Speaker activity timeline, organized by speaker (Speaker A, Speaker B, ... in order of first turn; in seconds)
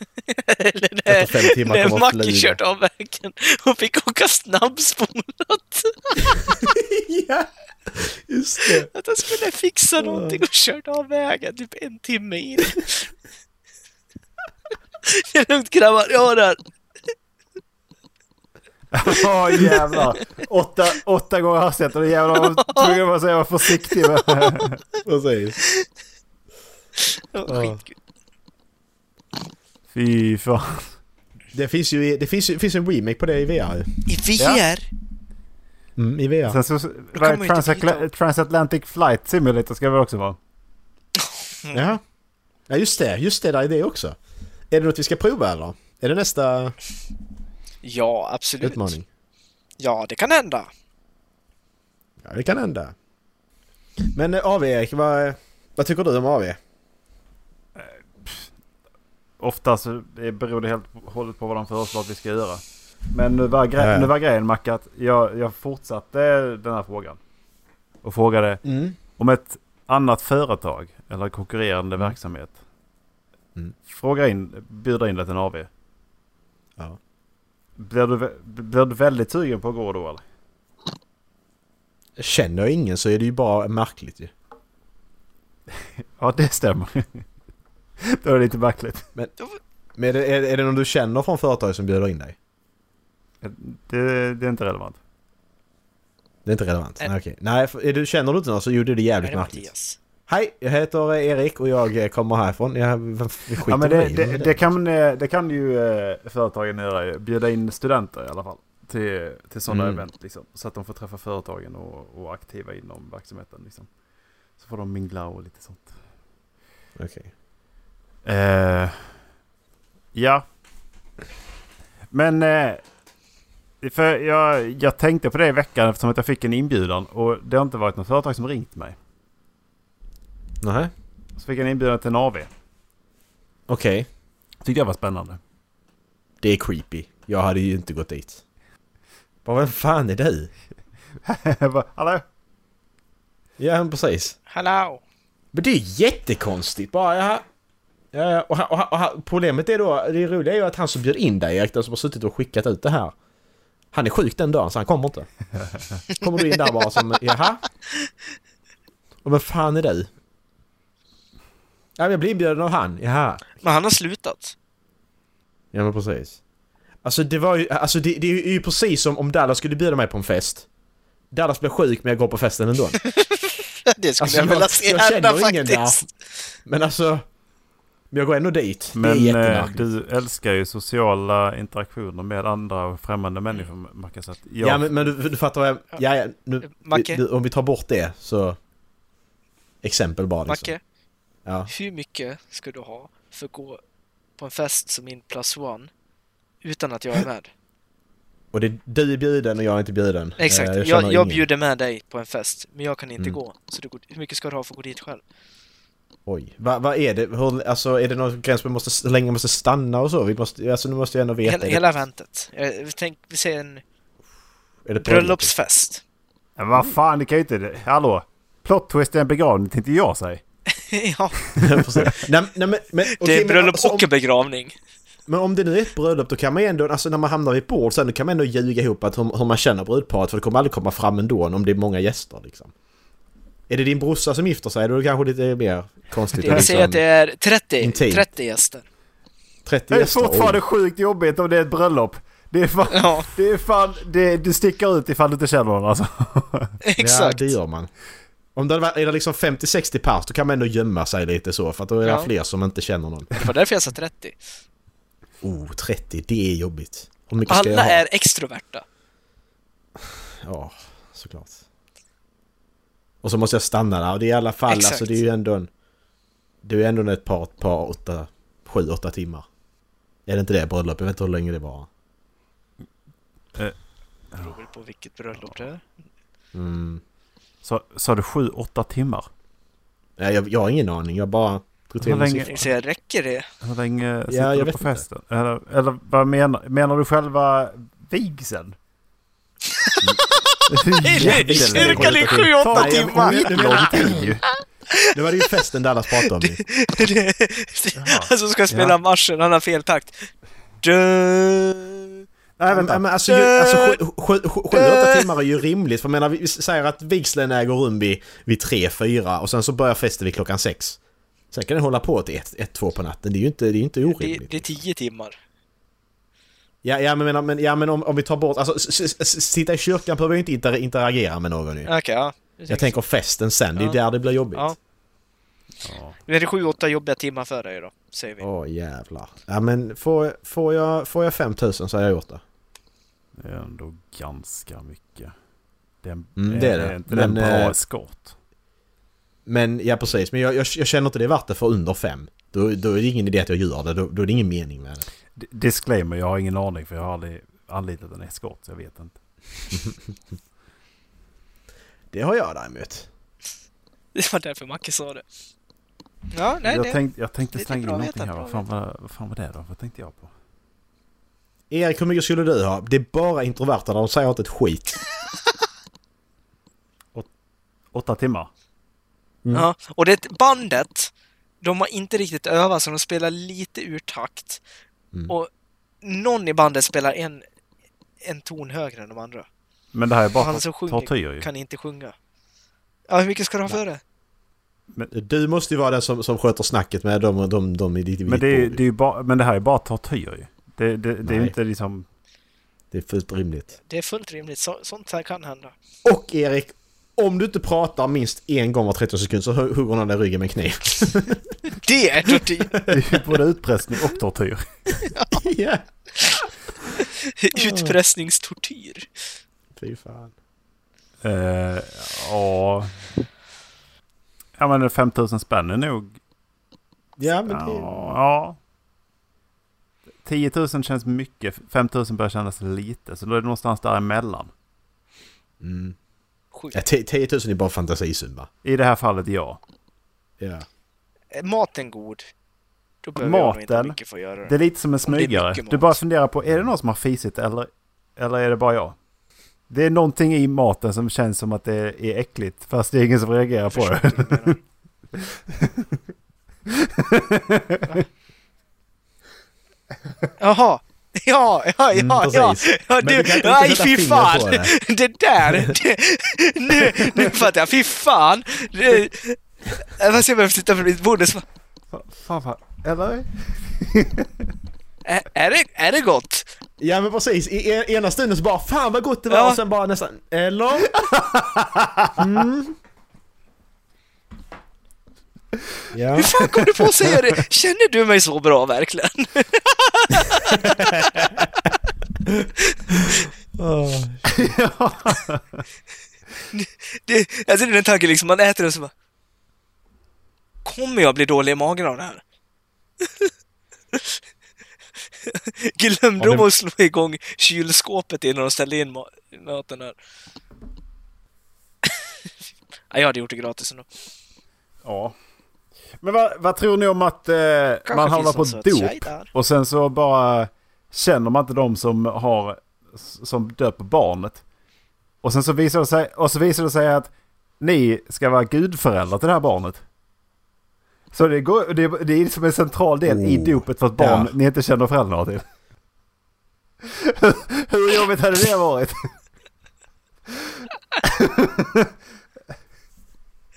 Speaker A: 0.3-6.7, 8.7-13.1, 15.1-16.6, 19.6-20.1, 22.3-23.0, 23.8-24.6, 27.0-27.9, 34.1-34.9, 37.1-38.1, 41.2-41.8, 47.8-49.0, 49.8-50.7, 99.2-100.0, 144.5-145.0, 163.6-164.6, 173.0-176.1, 186.7-187.2, 190.5-190.8, 191.7-193.8, 194.4-195.9, 196.6-197.5, 200.4-205.2, 211.4-213.8, 215.0-216.0, 220.8-221.6, 223.2-224.8, 236.4-238.9, 242.9-243.3, 246.8-247.6, 252.0-252.3, 253.3-254.4, 257.5-258.9, 264.7-265.2, 274.3-275.8, 282.4-283.5, 289.7-294.3, 294.9-295.6, 296.2-300.3, 300.8-302.2, 303.3-304.0, 304.7-305.3, 314.0-315.4, 321.9-322.9, 326.3-328.4, 354.1-355.2, 356.3-357.0, 357.5-358.6, 369.5-371.1, 371.6-374.6, 376.0-377.4, 378.2-379.5, 380.4-382.1, 383.1-384.0, 393.8-395.7, 401.8-402.8, 405.1-405.4, 407.0-409.1, 431.3-432.3, 433.0-434.5, 435.1-436.0, 443.7-444.6, 450.4-461.4, 465.1-466.5, 469.3-469.6, 476.2-481.3, 482.6-483.3, 486.5-488.9, 490.6-492.2, 493.0-493.3, 493.9-494.2, 495.2-500.0, 502.9-503.9, 507.9-509.3
Speaker B: 1.1-2.6, 6.2-8.9, 10.0-10.4, 25.0-25.6, 27.5-27.8, 31.5-33.9, 36.0-36.6, 41.7-42.0, 42.7-44.2, 44.7-46.8, 48.6-49.1, 52.2-53.0, 54.1-56.6, 63.8-64.1, 68.6-69.0, 82.2-84.3, 90.0-92.4, 96.5-99.7, 100.3-104.7, 109.7-110.0, 117.0-117.3, 130.6-130.9, 133.7-134.1, 136.4-138.4, 139.4-140.5, 143.6-144.4, 145.5-147.4, 148.1-153.1, 153.9-155.3, 156.2-157.6, 159.2-160.1, 162.0-163.4, 165.7-166.4, 167.0-170.7, 171.3-173.0, 174.2-176.0, 176.7-177.2, 178.1-179.9, 184.6-188.6, 189.8-190.7, 198.5-201.5, 206.3-211.9, 214.9-215.5, 221.6-224.1, 225.3-232.7, 233.7-237.0, 237.8-238.3, 239.7-240.6, 247.0-247.9, 248.6-253.4, 255.4-258.0, 260.0-261.6, 263.2-265.7, 266.6-269.4, 270.3-271.9, 276.5-277.0, 280.2-282.7, 284.3-285.0, 291.2-294.3, 295.1-296.6, 302.7-311.0, 311.5-314.8, 316.8-321.9, 322.7-324.7, 328.4-332.4, 336.4-337.8, 339.5-345.1, 352.1-353.1, 361.7-365.0, 385.1-388.8, 391.2-391.5, 392.9-393.7, 396.1-401.5, 402.7-403.2, 405.3-406.4, 407.6-408.0, 409.8-410.3, 417.2-418.1, 425.6-426.0, 426.7-428.5, 430.4-430.7, 451.9-454.7, 466.8-471.1, 472.2-472.8, 475.9-476.9, 480.5-481.4, 483.0-484.5, 523.0-524.3
Speaker C: 18.9-24.8, 29.9-31.0, 36.5-40.4, 57.8-58.5, 59.4-67.2, 68.0-68.6, 69.2-72.6, 73.9-75.7, 77.8-80.2, 85.8-87.2, 88.0-89.1, 93.4-95.0, 103.7-113.9, 114.6-115.9, 118.2-119.0, 120.1-120.5, 122.1-122.8, 123.8-128.9, 131.4-132.5, 134.6-135.4, 141.2-142.2, 155.6-156.0, 178.9-185.1, 216.6-220.4, 236.4-236.8, 239.9-246.7, 277.6-279.3, 282.0-282.7, 283.6-288.8, 290.7-294.4, 298.0-299.0, 302.6-303.0, 325.8-326.2, 333.4-335.4, 336.0-338.3, 345.4-349.2, 356.6-360.3, 367.9-368.5, 379.9-381.5, 388.3-392.1, 402.9-404.6, 411.2-413.0, 414.6-416.2, 417.2-418.6, 420.2-424.5, 428.6-429.6, 433.2-439.0, 439.7-444.6, 445.1-446.0, 446.7-448.0, 461.9-464.5, 471.0-472.4, 477.1-477.4, 484.3-485.6, 496.2-496.5, 504.8-505.1, 506.0-514.4, 515.2-519.8, 521.1-525.5, 526.8-529.1, 530.3-531.9